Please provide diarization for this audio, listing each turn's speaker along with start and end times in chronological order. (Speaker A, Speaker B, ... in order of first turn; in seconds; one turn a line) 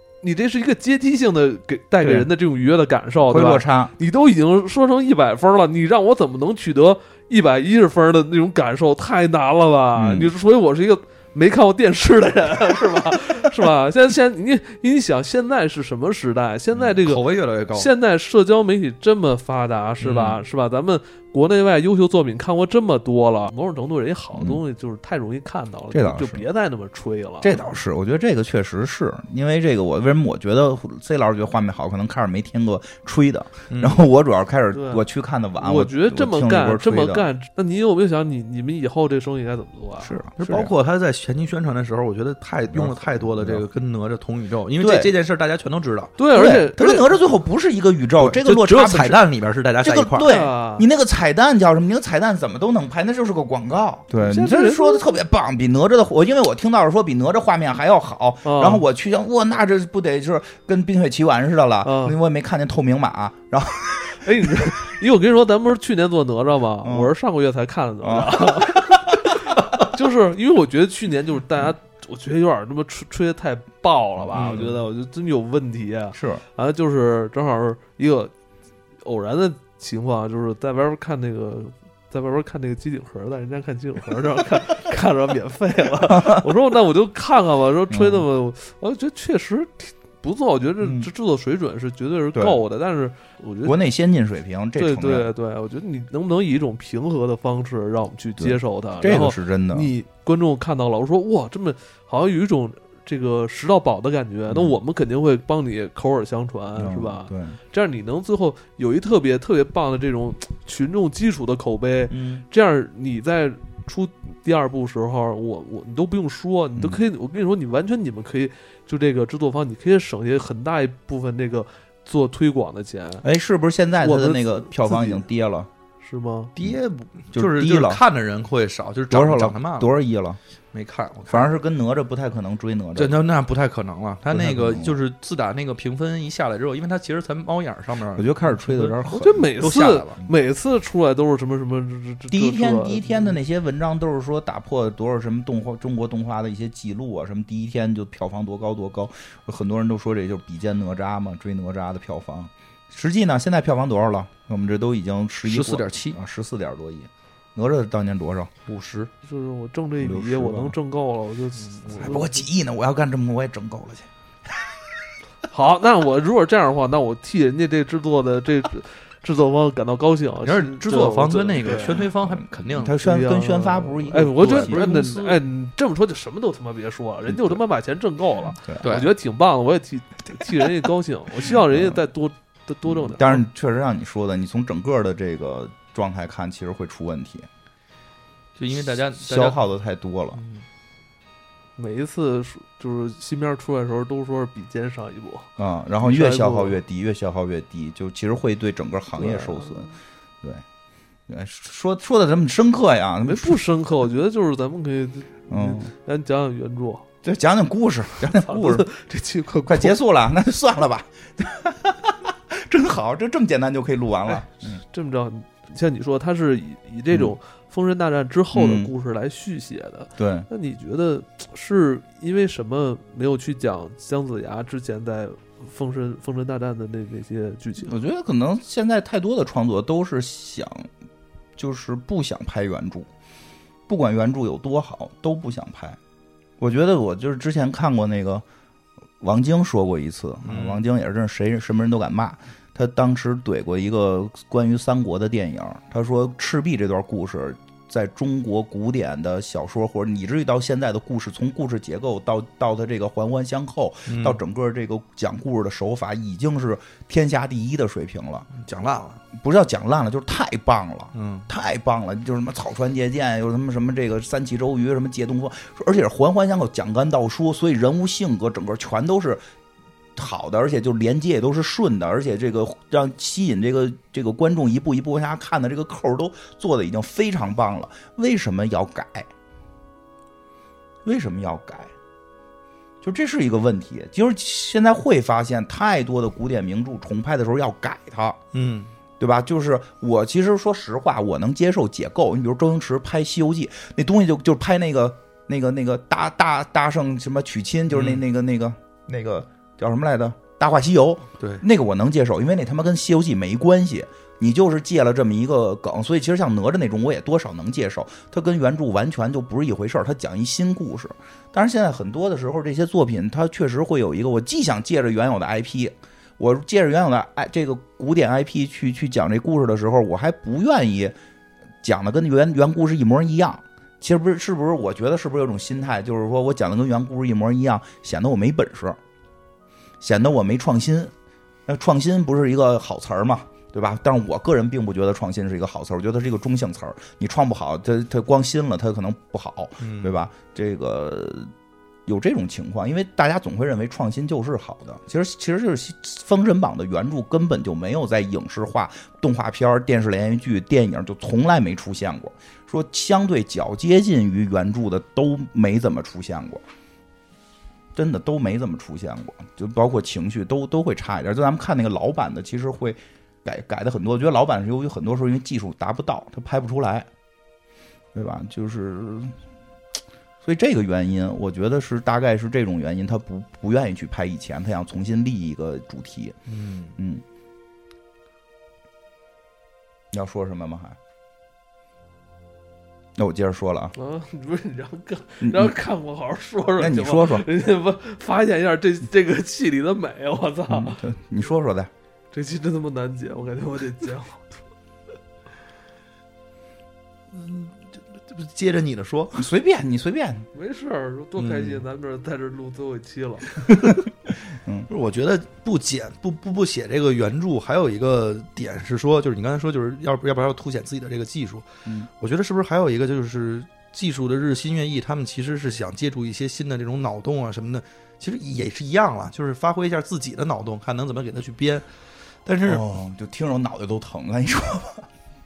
Speaker A: 0.2-27.7
Speaker B: 2.0-2.3
Speaker B: 3.2-3.9
Speaker B: 10.0-10.3
Speaker C: 17.0-17.9
Speaker B: 20.0-20.3
Speaker B: 24.4-24.6
Speaker B: 25.9-26.5
Speaker B: 27.4-37.3
Speaker C: 33.7-34.1
Speaker A: 34.7-35.0
Speaker A: 35.6-40.3
Speaker B: 40.0-40.7
Speaker C: 40.4-46.1
Speaker B: 42.7-43.6
Speaker B: 44.8-45.1
Speaker A: 46.2-47.1
Speaker B: 46.3-49.2
Speaker C: 48.2-50.3
Speaker B: 49.8-64.5
Speaker A: 50.2-50.9
Speaker A: 54.2-55.1
Speaker A: 58.4-58.8
Speaker A: 61.8-62.2
Speaker A: 64.2-78.3
Speaker B: 66.8-67.1
Speaker B: 68.0-69.3
Speaker B: 74.3-74.8
Speaker C: 74.3-74.7
Speaker B: 76.2-76.4
Speaker A: 79.0-93.8
Speaker B: 86.1-86.5
Speaker B: 87.9-88.3
Speaker B: 90.8-91.1
Speaker B: 92.3-92.6
Speaker B: 93.6-95.3
Speaker A: 94.8-123.2
Speaker B: 98.4-99.9
Speaker B: 104.5-104.8
Speaker B: 106.8-107.6
Speaker C: 112.1-112.4
Speaker B: 123.2-125.7
Speaker A: 124.0-125.2
Speaker A: 126.0-126.5
Speaker C: 126.6-129.9
Speaker B: 127.3-128.0
Speaker B: 129.1-130.4
Speaker C: 130.7-131.5
Speaker B: 131.3-133.2
Speaker C: 133.0-139.0
Speaker B: 134.3-135.0
Speaker B: 138.2-140.3
Speaker A: 139.1-143.3
Speaker C: 139.6-140.1
Speaker B: 142.3-158.5
Speaker C: 155.4-156.2
Speaker C: 158.7-159.1
Speaker A: 159.2-162.4
Speaker B: 160.0-160.8
Speaker B: 162.0-164.1
Speaker A: 165.5-172.1
Speaker C: 170.4-173.0
Speaker B: 171.8-174.9
Speaker A: 173.0-183.4
Speaker C: 174.1-175.4
Speaker B: 177.3-177.6
Speaker B: 178.6-178.9
Speaker C: 178.8-179.1
Speaker B: 181.7-182.0
Speaker B: 182.9-187.5
Speaker C: 188.6-189.6
Speaker B: 189.2-190.4
Speaker C: 190.4-190.7
Speaker A: 191.8-195.5
Speaker B: 195.6-199.9
Speaker A: 196.0-196.8
Speaker A: 199.2-199.9
Speaker B: 201.3-203.6
Speaker A: 203.2-207.1
Speaker B: 205.5-205.9
Speaker B: 207.2-208.9
Speaker A: 208.3-210.0
Speaker B: 209.7-214.8
Speaker A: 214.9-227.9
Speaker B: 218.5-218.9
Speaker B: 220.2-220.5
Speaker B: 227.8-230.9
Speaker B: 231.6-233.1
Speaker B: 233.9-236.0
Speaker B: 236.6-238.4
Speaker B: 239.2-258.5
Speaker C: 240.4-240.8
Speaker C: 254.1-254.4
Speaker C: 258.6-259.2
Speaker B: 259.3-269.4
Speaker C: 261.1-261.5
Speaker B: 270.2-279.3
Speaker B: 281.1-281.9
Speaker B: 283.0-288.4
Speaker C: 288.5-288.9
Speaker B: 289.2-321.1
Speaker C: 297.9-298.2
Speaker B: 321.8-329.0
Speaker B: 330.0-331.1
Speaker B: 331.7-341.5
Speaker C: 339.8-340.2
Speaker B: 342.1-356.6
Speaker B: 357.9-367.1
Speaker B: 368.1-369.4
Speaker B: 370.4-376.4
Speaker C: 376.5-377.0
Speaker B: 377.0-377.2
Speaker B: 380.1-381.0
Speaker B: 383.2-383.9
Speaker A: 383.9-391.0
Speaker B: 385.4-385.8
Speaker B: 386.8-387.5
Speaker B: 390.7-391.9
Speaker A: 392.3-394.5
Speaker C: 397.3-399.5
Speaker B: 399.4-400.5
Speaker A: 400.5-403.6
Speaker C: 404.9-421.9
Speaker C: 422.5-422.9
Speaker B: 422.6-425.1